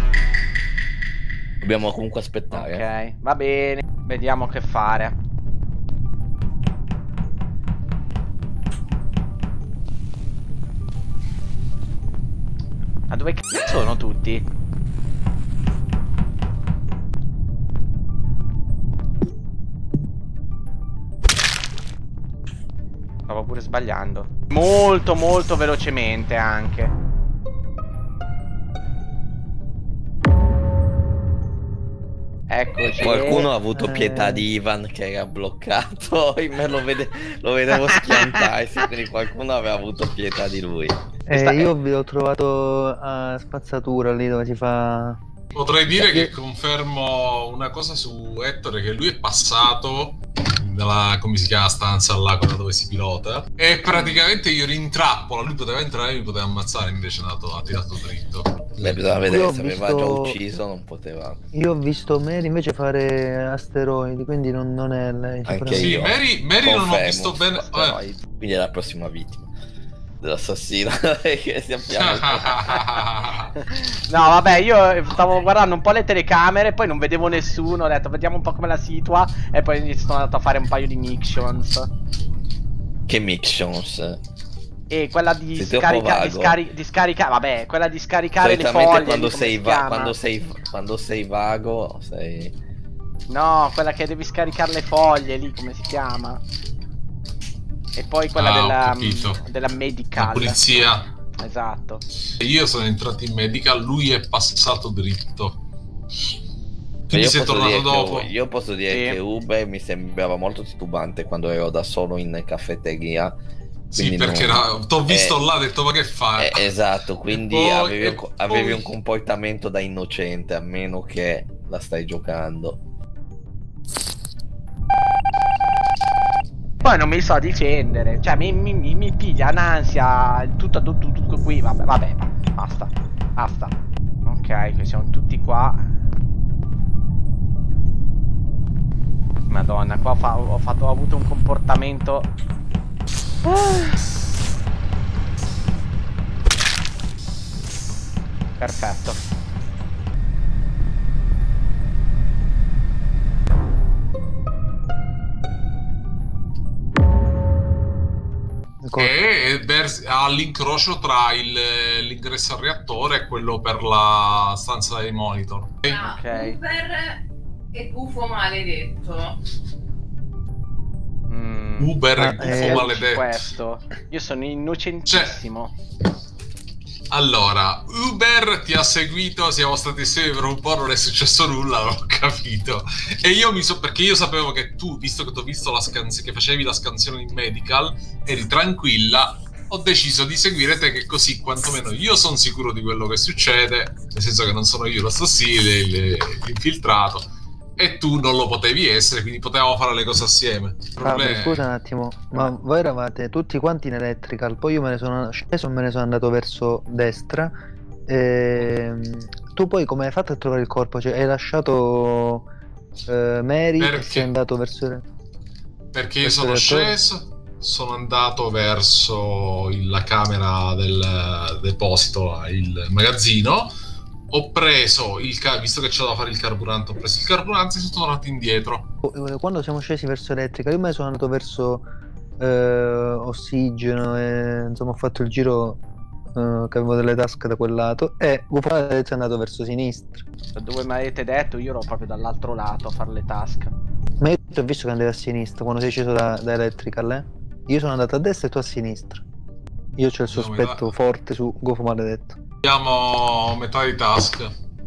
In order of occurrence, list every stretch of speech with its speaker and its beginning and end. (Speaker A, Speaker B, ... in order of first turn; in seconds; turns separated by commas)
Speaker A: 1.6-2.9, Speaker B: 2.5-5.2, Speaker B: 13.1-14.5, Speaker B: 23.3-26.9, Speaker B: 32.5-33.5, Speaker A: 33.0-41.0, Speaker C: 33.7-34.5, Speaker B: 38.0-38.3, Speaker C: 41.3-45.2, Speaker B: 41.3-41.7, Speaker D: 45.5-59.2, Speaker C: 45.9-46.3, Speaker A: 58.8-61.4, Speaker C: 59.2-60.4, Speaker C: 61.5-66.0, Speaker A: 65.5-69.5, Speaker D: 65.7-68.0, Speaker A: 70.2-72.8, Speaker D: 71.9-73.5, Speaker B: 73.6-81.9, Speaker A: 83.1-84.2, Speaker B: 84.9-90.2, Speaker A: 85.5-86.6, Speaker A: 88.4-92.5, Speaker B: 93.3-96.4, Speaker B: 98.0-100.6, Speaker D: 98.3-99.4, Speaker D: 100.2-101.1, Speaker B: 101.4-102.0, Speaker D: 102.4-105.6, Speaker D: 107.1-108.3, Speaker A: 107.1-113.3, Speaker B: 108.9-109.2, Speaker D: 113.9-116.8, Speaker A: 114.0-115.4, Speaker A: 116.4-122.8, Speaker D: 117.3-118.9, Speaker B: 126.8-133.7, Speaker B: 134.3-135.9, Speaker B: 139.5-142.3, Speaker B: 143.5-144.0, Speaker B: 148.6-149.2, Speaker C: 158.8-159.1, Speaker D: 159.0-166.1, Speaker E: 165.9-167.2, Speaker B: 166.0-166.6, Speaker E: 167.7-169.4, Speaker B: 171.3-175.7, Speaker D: 171.8-173.6, Speaker C: 172.2-173.0, Speaker D: 175.1-175.4, Speaker D: 177.1-201.7, Speaker C: 201.0-207.5, Speaker C: 208.1-212.5, Speaker C: 213.1-215.0, Speaker D: 213.8-214.3, Speaker D: 215.9-223.7, Speaker C: 216.2-217.0, Speaker D: 224.3-228.9, Speaker C: 229.0-231.8, Speaker C: 232.4-235.8, Speaker C: 236.4-240.2, Speaker B: 240.6-243.7, Speaker C: 244.2-249.2, Speaker C: 250.0-252.4, Speaker D: 250.3-250.9, Speaker D: 252.6-254.5